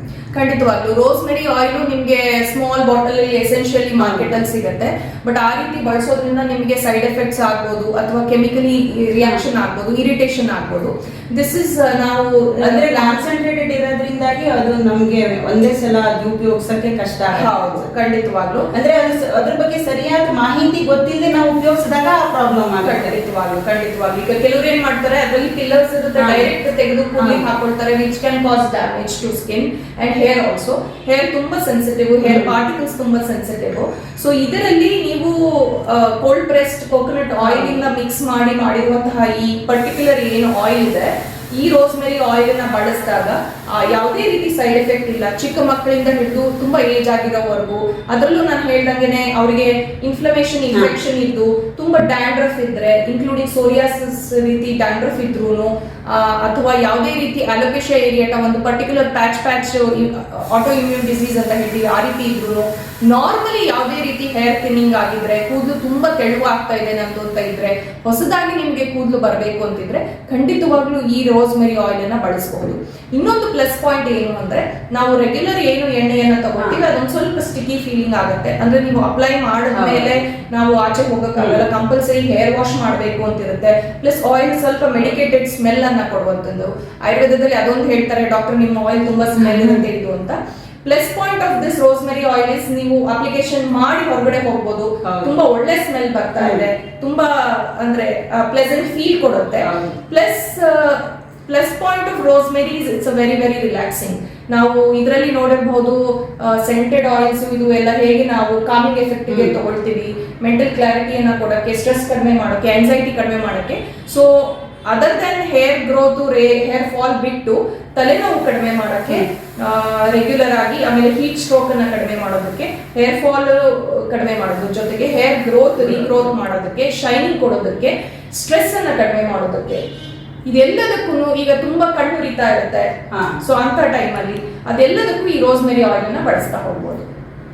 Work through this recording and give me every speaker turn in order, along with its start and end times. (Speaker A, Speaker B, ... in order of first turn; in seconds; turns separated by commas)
Speaker A: 0.3-13.2, Speaker B: 4.0-4.3, Speaker B: 12.6-17.9, Speaker A: 17.3-18.7, Speaker B: 18.7-23.1, Speaker A: 22.8-129.8, Speaker B: 26.2-26.5, Speaker B: 32.2-32.5, Speaker B: 37.4-37.8, Speaker B: 79.7-80.1, Speaker B: 89.4-89.8, Speaker B: 95.0-95.3, Speaker B: 96.4-96.7, Speaker B: 99.6-100.0, Speaker B: 125.8-126.2, Speaker A: 130.4-137.1, Speaker B: 133.1-133.4